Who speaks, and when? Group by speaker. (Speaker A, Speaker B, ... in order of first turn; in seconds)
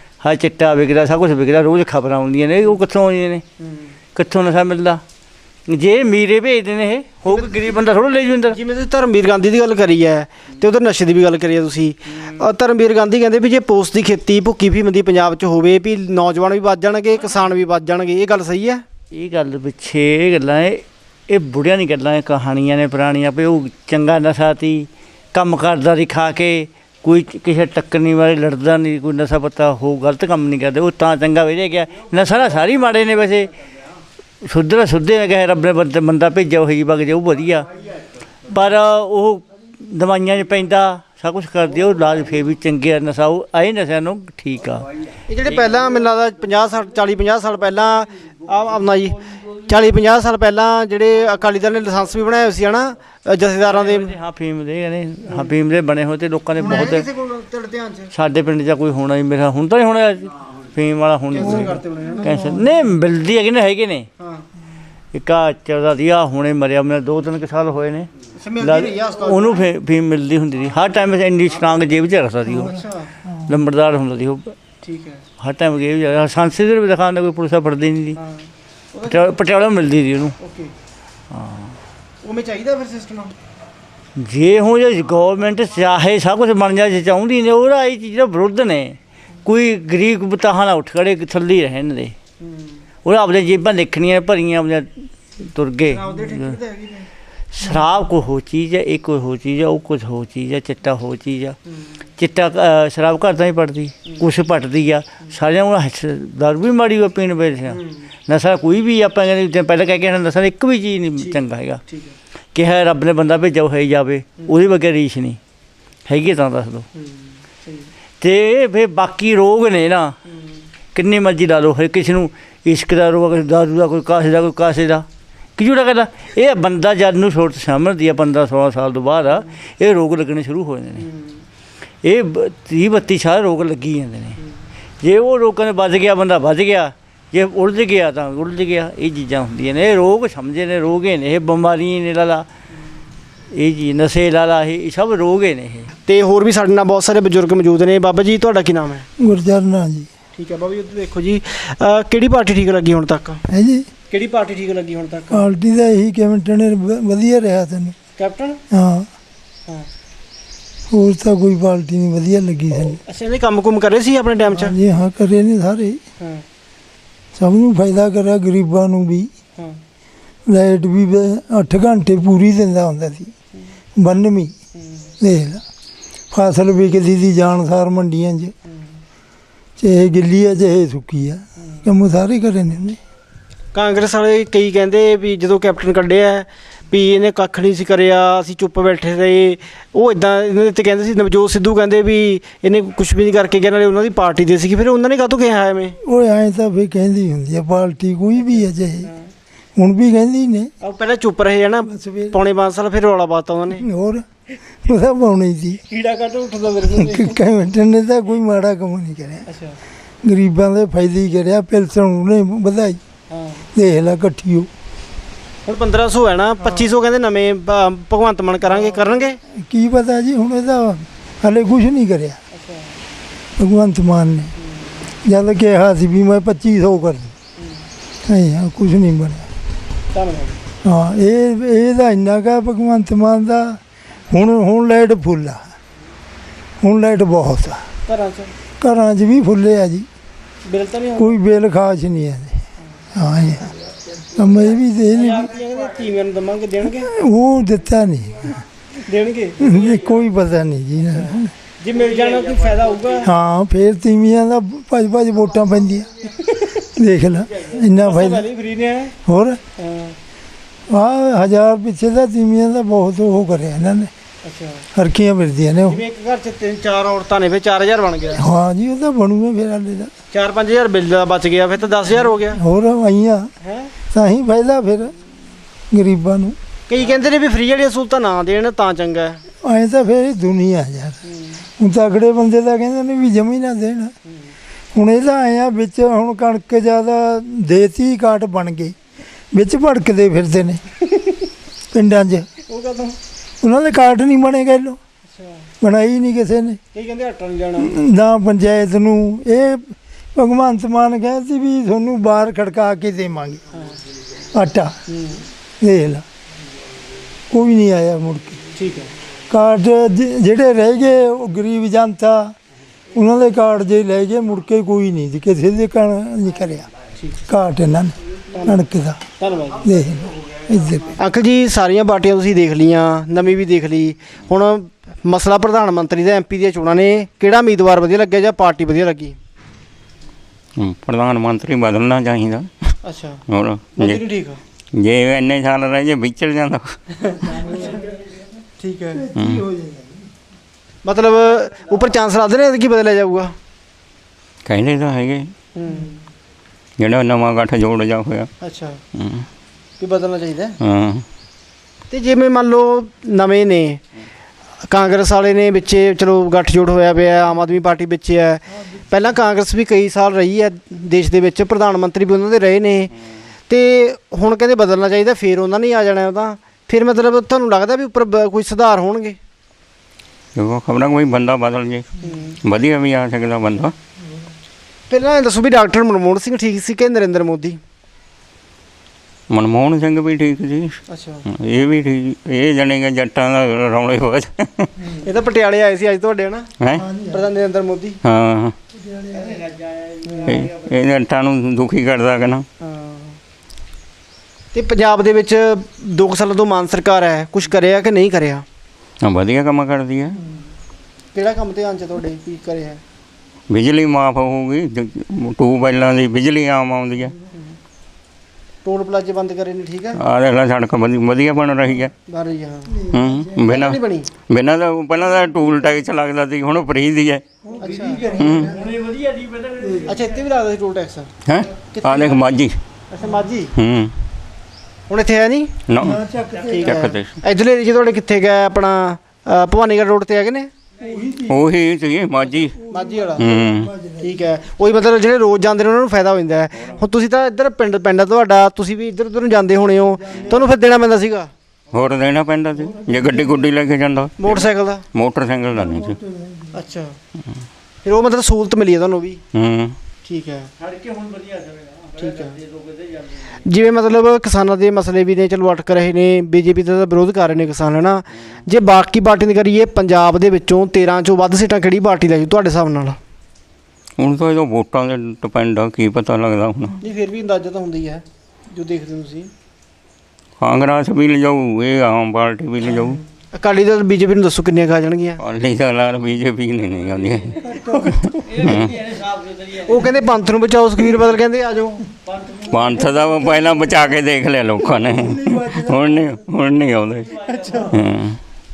Speaker A: 0.2-3.4, 4.2-5.0, 5.7-8.6, 19.1-33.5, 34.4-37.7, 38.5-44.9, 53.7-57.1, 58.1-64.1, 65.1-68.1, 68.6-72.8, 73.5-74.5, 75.4-78.2, 79.0-80.3, 81.3-81.8, 84.2-92.1, 93.0-94.9, 95.4-96.6, 97.5-101.6, 102.2-111.8, 112.5-115.4, 116.1-116.9, 118.2-120.2, 121.0-125.1, 125.6-131.1, 132.0-134.4, 135.0-142.5, 143.5-145.9, 389.3-390.9, 417.8-420.4, 450.8-453.5, 476.9-477.8, 478.4-480.2, 482.3-484.1, 487.2-487.9
Speaker B: 3.6-3.9, 7.3-7.5, 8.5-18.8, 45.3-54.1, 55.3-55.5, 56.6-58.1, 61.3-62.3, 64.2-64.5, 68.4-69.7, 72.5-73.1, 74.8-75.2, 78.2-79.4, 80.4-80.7, 82.2-83.3, 92.4-92.8, 95.9-97.1, 107.7-108.0, 111.2-112.1, 117.0-117.9, 120.3-120.6, 131.0-131.4, 146.1-149.1, 150.3-153.4, 154.1-155.4, 158.2-158.6, 163.1-164.8, 183.7-196.0, 200.8-203.8, 205.9-207.4, 209.5-209.8, 213.3-213.7, 215.7-219.4, 222.5-223.0, 224.6-225.0, 227.6-227.8, 230.1-230.6, 238.1-238.5, 240.7-241.3, 245.1-247.1, 249.1-249.8, 251.8-253.3, 256.4-256.7, 257.7-259.1, 259.8-260.2, 264.4-264.8, 265.9-268.4, 270.3-272.6, 273.6-273.9, 276.9-279.4, 281.3-281.6, 292.7-293.2, 295.3-295.6, 296.9-297.9, 305.1-305.4, 308.8-309.1, 318.6-318.8, 319.4-319.9, 321.1-329.4, 333.0-333.4, 334.0-334.6, 337.3-337.9, 338.8-339.3, 341.0-343.6, 345.8-346.2, 348.6-349.0, 350.0-350.8, 352.1-354.0, 354.9-363.1, 363.7-369.4, 372.2-372.6, 375.1-377.8, 381.1-381.4, 385.2-386.7, 387.3-388.2, 390.3-390.7, 392.8-393.4, 394.7-398.6, 401.3-403.0, 408.9-410.2, 412.3-413.0, 413.7-414.3, 417.8-418.4, 420.1-422.4, 423.1-423.7, 425.1-425.7, 426.7-430.7, 432.9-433.4, 434.2-441.5, 444.4-445.1, 446.7-447.1, 448.0-449.4, 450.2-450.7, 452.2-452.6, 453.7-463.2, 467.0-469.5, 473.5-475.4, 479.9-482.1, 487.5-487.9
Speaker C: 61.4-62.8, 72.5-73.6, 149.2-150.1, 153.5-153.9, 155.3-158.0, 158.7-159.1, 160.9-163.0, 164.5-166.0, 167.3-169.3, 170.5-173.3, 174.0-174.5, 175.2-175.6, 176.3-178.6, 179.8-183.0, 196.0-199.1, 199.8-200.7, 201.9-202.3, 203.8-204.3, 204.8-205.8, 206.9-209.5, 210.2-213.0, 213.7-214.7, 219.6-222.4, 223.6-224.5, 225.2-227.3, 228.2-229.5, 230.8-235.7, 236.8-237.8, 238.8-240.1, 241.2-243.7, 244.3-245.5, 247.0-248.7, 249.6-251.5, 253.2-256.1, 257.0-258.4, 259.2-259.6, 260.9-264.1, 264.9-266.0, 268.4-270.1, 272.6-273.5, 274.1-275.2, 275.9-276.6, 279.6-281.2, 281.8-284.1, 284.9-288.9, 289.5-290.8, 291.9-292.5, 293.6-295.0, 295.8-296.8, 297.8-303.6, 304.5-304.9, 305.8-306.2, 307.5-308.6, 309.5-312.6, 313.1-316.9, 317.5-319.2, 319.8-321.2, 337.5-337.9, 339.1-340.2, 386.9-387.4, 389.0-389.6, 412.9-413.8, 417.6-419.0, 419.8-420.2, 426.0-427.1, 431.0-431.6, 432.8-434.4, 440.2-440.6, 442.8-443.6, 445.8-446.8, 477.6-478.2, 485.1-486.3
Speaker D: 330.8-332.9, 333.5-334.2, 335.0-336.9, 339.4-339.6, 344.7-345.5, 347.0-348.5, 349.1-349.5, 350.8-351.2, 370.6-372.1, 372.6-373.9, 379.5-384.9, 386.8-387.1, 388.2-388.7, 390.5-392.6, 399.2-400.4, 403.7-407.3, 410.2-412.1, 413.1-414.0, 414.5-417.4, 418.4-418.7, 421.5-422.7, 423.8-424.1, 425.9-426.2, 426.8-427.3, 431.5-432.8, 433.4-433.9, 441.9-446.2, 449.5-450.0, 464.2-467.0, 470.6-473.2, 475.4-478.9, 482.7-487.3, 487.9-488.4